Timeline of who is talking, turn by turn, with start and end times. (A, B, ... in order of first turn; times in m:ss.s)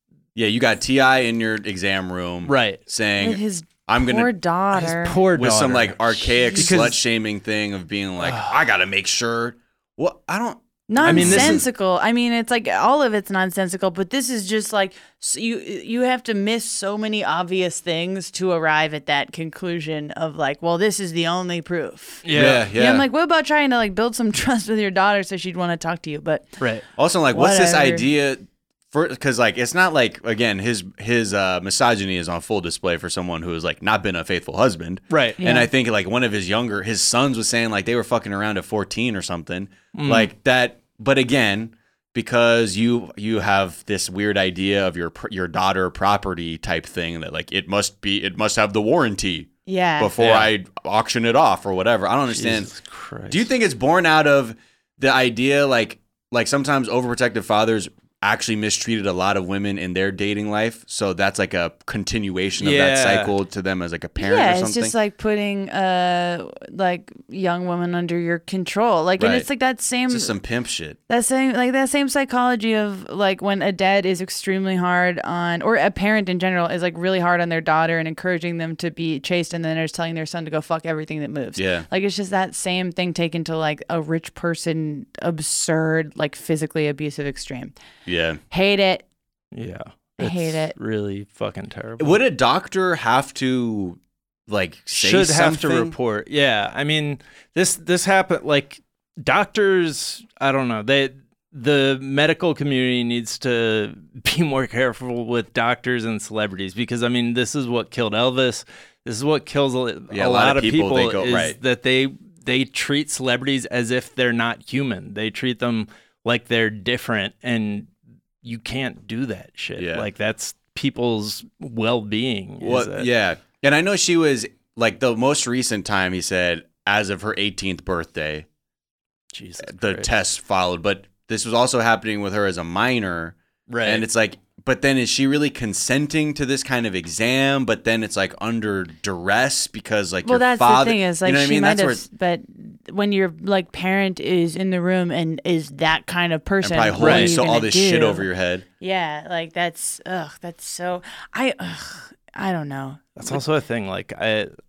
0:00.3-0:04.3 A
0:02.4-0:02.8 B
0:03.2-0:05.2 C
0:04.7-0:07.0 B
0:05.3-0:11.7 A
0:08.2-0:08.6 B
0:10.9-0:26.6 C
0:11.0-0:11.6 B
0:22.2-0:22.6 B
0:22.3-0:23.0 A
0:27.0-0:52.7 A
0:27.3-0:28.1 C
0:35.1-0:35.4 B
0:35.4-0:35.7 C
0:39.9-0:40.3 B
0:49.6-0:50.2 C
0:50.2-0:50.5 B
0:52.3-0:53.4 B
0:53.3-1:04.9 A
1:02.6-1:03.3 B
1:04.2-1:10.3 C
1:09.2-1:09.4 A
1:10.1-1:11.0 A
1:11.1-1:27.8 C
1:21.6-1:21.8 A
1:28.0-1:28.4 A
1:28.5-1:29.0 C
1:29.5-1:32.2 B
1:30.2-1:30.7 C
1:32.0-1:35.9 A
1:34.9-1:57.9 B
1:50.1-1:51.6 A
1:58.4-2:03.1 B
1:59.8-2:00.1 A
2:02.6-2:08.4 A
2:09.3-2:10.1 B
2:09.6-2:22.0 A
2:13.7-2:14.0 B
2:20.2-2:28.3 C
2:26.6-2:28.6 A
2:27.0-2:27.3 B
2:28.8-2:33.2 C
2:33.2-2:34.5 B